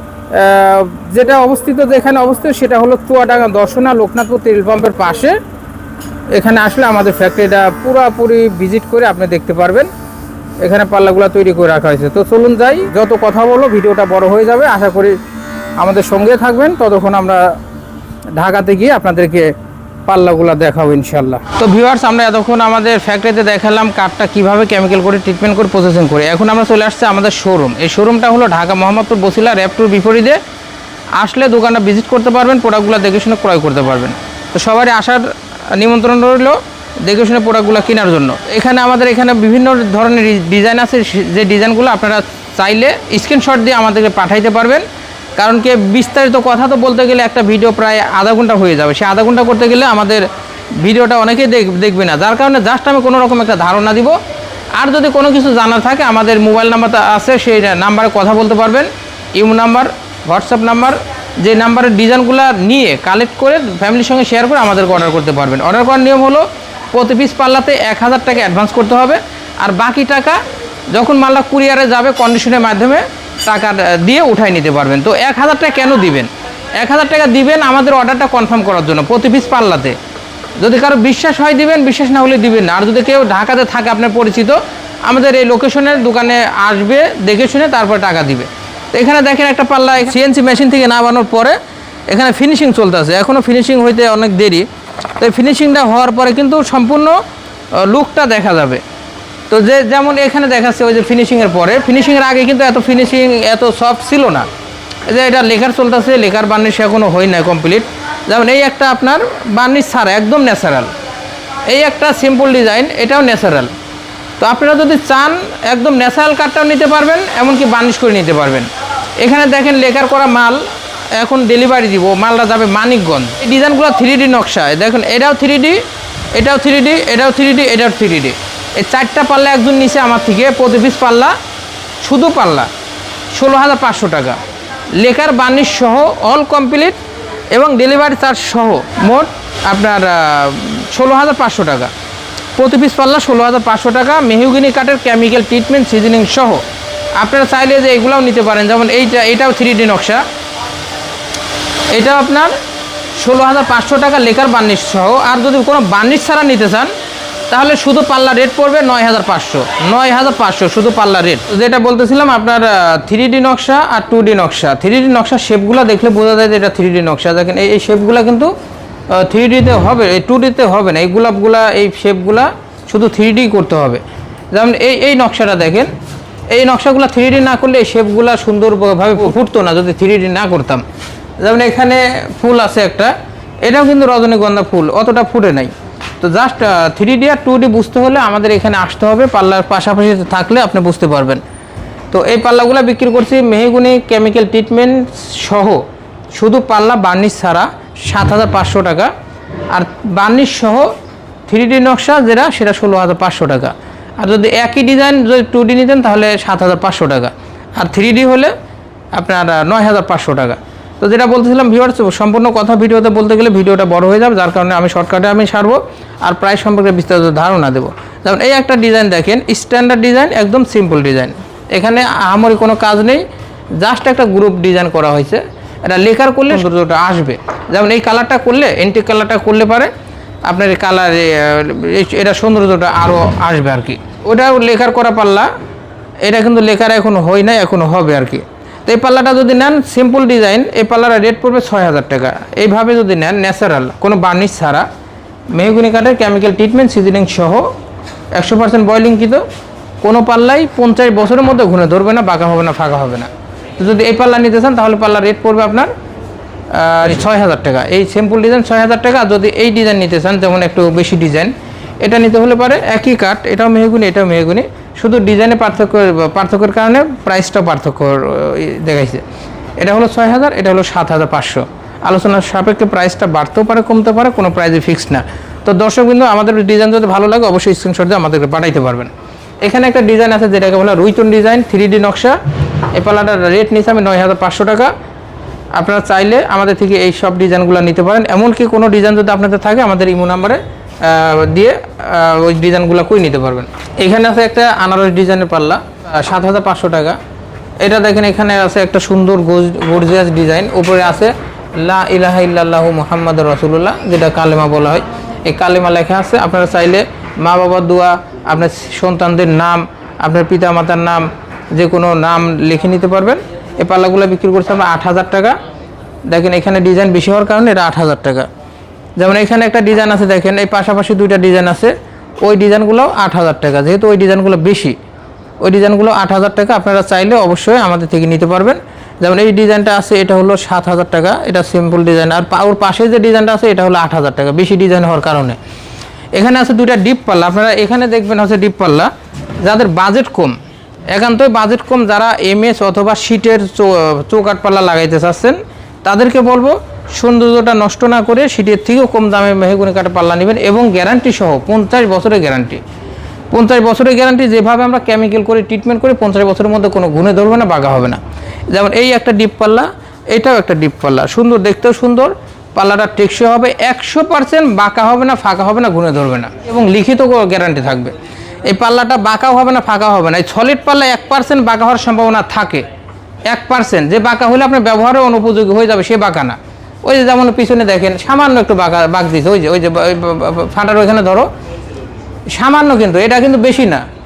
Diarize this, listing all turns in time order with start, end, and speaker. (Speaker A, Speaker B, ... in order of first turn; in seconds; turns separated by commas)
Speaker A: 0.3-5.4, Speaker A: 6.3-9.9, Speaker A: 10.6-15.2, Speaker A: 15.8-17.6, Speaker A: 18.4-19.5, Speaker A: 20.1-30.4, Speaker A: 31.2-44.8, Speaker A: 45.4-54.2, Speaker A: 54.8-70.4, Speaker A: 70.9-80.0, Speaker A: 80.6-91.6, Speaker A: 92.1-94.7, Speaker A: 95.2-97.2, Speaker A: 97.7-98.8, Speaker A: 99.5-104.5, Speaker A: 105.1-110.9, Speaker A: 111.7-113.7, Speaker A: 114.4-118.7, Speaker A: 119.2-120.6, Speaker A: 121.1-125.8, Speaker A: 126.3-131.3, Speaker A: 132.0-132.7, Speaker A: 133.3-134.4, Speaker A: 135.0-137.0, Speaker A: 137.5-141.9, Speaker A: 142.6-146.6, Speaker A: 147.2-150.2, Speaker A: 151.9-152.6, Speaker A: 153.2-156.9, Speaker A: 157.5-168.5, Speaker A: 169.1-174.0, Speaker A: 174.5-175.9, Speaker A: 176.5-180.8, Speaker A: 181.4-191.4, Speaker A: 192.1-199.1, Speaker A: 199.7-200.9, Speaker A: 201.5-208.5, Speaker A: 209.1-223.2, Speaker A: 223.8-229.9, Speaker A: 230.5-235.5, Speaker A: 236.2-244.9, Speaker A: 245.5-247.7, Speaker A: 248.3-249.4, Speaker A: 250.0-255.9, Speaker A: 256.7-269.2, Speaker A: 269.8-279.1, Speaker A: 279.6-282.4, Speaker A: 282.9-284.9, Speaker A: 285.8-297.2, Speaker A: 297.8-315.6, Speaker A: 316.3-318.5, Speaker A: 319.2-325.0, Speaker A: 325.6-335.6, Speaker A: 336.4-339.1, Speaker A: 339.6-340.6, Speaker A: 341.1-352.8, Speaker A: 353.5-358.2, Speaker A: 358.7-368.1, Speaker A: 368.6-372.9, Speaker A: 373.5-381.5, Speaker A: 382.5-384.0